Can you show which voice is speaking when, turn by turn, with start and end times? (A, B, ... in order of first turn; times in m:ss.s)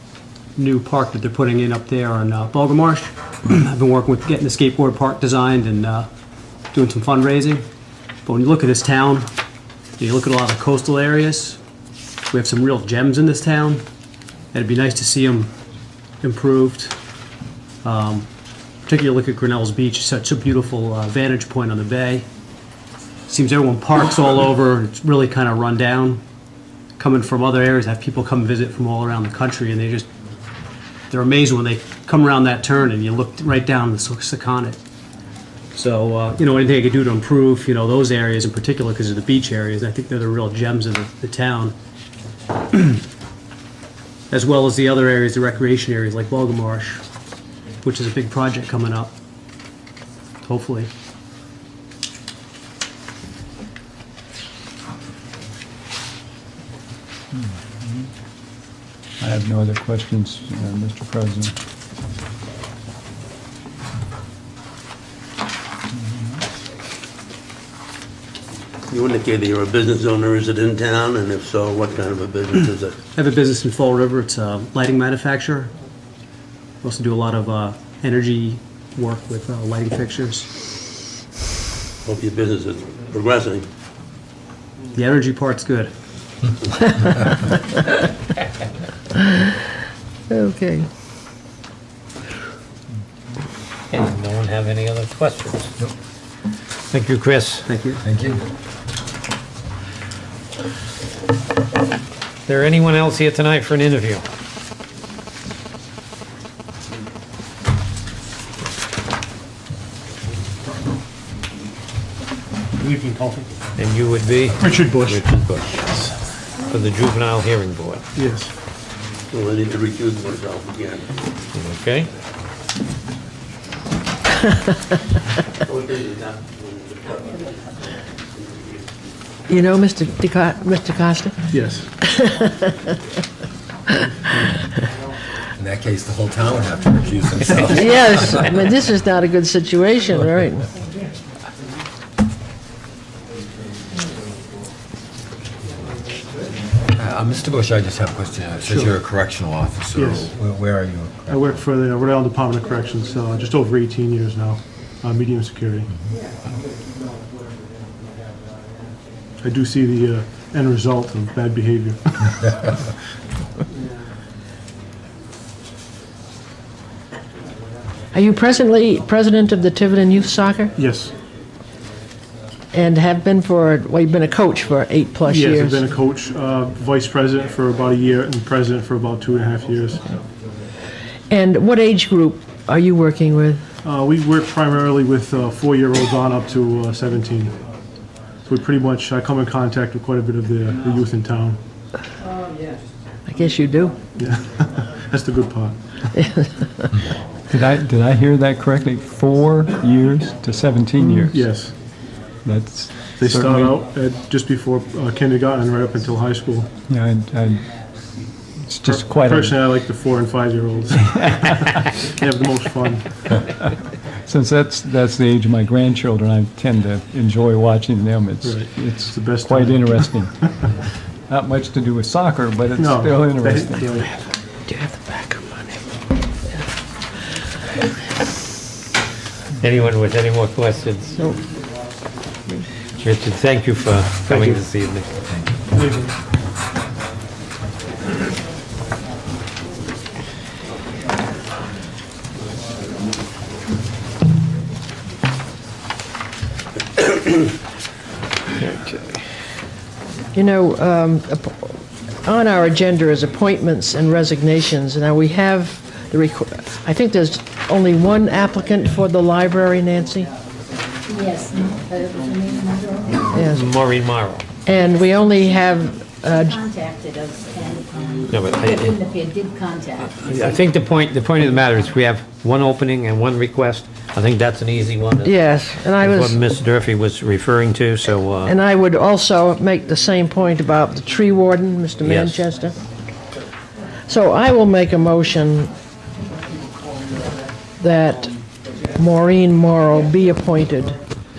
0:00.6-0:06.1 A
0:06.7-0:07.6 A
0:08.2-0:09.3 A
0:10.0-0:11.6 A
0:12.3-0:13.8 A
0:14.5-0:15.5 A
0:16.2-0:17.0 A
0:17.8-0:18.3 A
0:18.9-0:22.3 A
0:23.3-0:26.2 A
0:27.0-0:30.1 A
0:31.1-0:34.8 A
0:35.7-0:41.8 A
0:42.7-0:43.0 A
0:44.3-0:47.0 A
0:47.8-0:49.1 A
0:50.4-0:50.9 A
0:57.3-0:58.0 B
0:59.2-1:01.5 B
1:08.9-1:13.0 C
1:13.1-1:15.7 A
1:16.8-1:20.5 A
1:22.0-1:23.7 C
1:24.9-1:25.9 A
1:30.3-1:30.9 D
1:33.9-1:35.7 E
1:36.9-1:37.7 E
1:37.7-1:38.0 A
1:38.0-1:38.4 F
1:42.5-1:44.2 E
1:52.8-1:53.5 A
1:53.8-1:55.8 E
1:54.6-1:56.1 G
1:56.6-1:58.0 E
1:58.1-1:58.5 G
1:59.3-2:01.2 C
2:01.5-2:02.1 E
2:05.6-2:07.6 C
2:08.4-2:08.8 C
2:09.5-2:11.5 D
2:11.5-2:11.9 G
2:12.0-2:12.7 D
2:15.6-2:18.3 F
2:17.6-2:20.7 D
2:26.9-2:31.5 F
2:30.0-2:30.3 G
2:31.3-2:35.9 G
2:39.4-2:42.4 G
2:48.1-2:50.8 D
2:50.8-2:51.1 G
2:52.7-2:55.8 D
2:55.3-3:00.1 G
3:01.3-3:03.6 D
3:03.8-3:07.6 G
3:08.4-3:11.6 G
3:13.3-3:14.1 D
3:14.1-3:15.8 G
3:16.2-3:16.7 D
3:17.5-3:21.4 B
3:21.3-3:21.8 G
3:22.4-3:23.8 B
3:23.2-3:26.7 G
3:26.9-3:27.7 B
3:28.6-3:29.6 B
3:28.8-3:33.1 G
3:34.3-3:40.4 B
3:38.4-3:40.2 G
3:41.3-3:44.0 B
3:42.8-3:44.2 G
3:44.7-3:45.8 D
3:49.6-3:51.2 E
3:53.0-3:55.1 E
3:55.7-3:56.1 G
4:08.6-4:09.0 E
4:10.3-4:20.3 D
4:21.1-4:23.4 H
4:23.3-4:23.7 D
4:23.4-4:24.5 E
4:24.6-4:26.6 D
4:24.8-4:25.6 H
4:26.3-4:30.4 H
4:28.3-4:29.0 E
4:30.0-4:35.4 E
4:35.2-4:36.4 D
4:35.9-4:38.6 E
4:38.4-4:42.8 D
4:42.0-4:42.4 E
4:44.1-4:45.7 D
4:47.8-4:48.3 D
4:48.9-4:51.0 D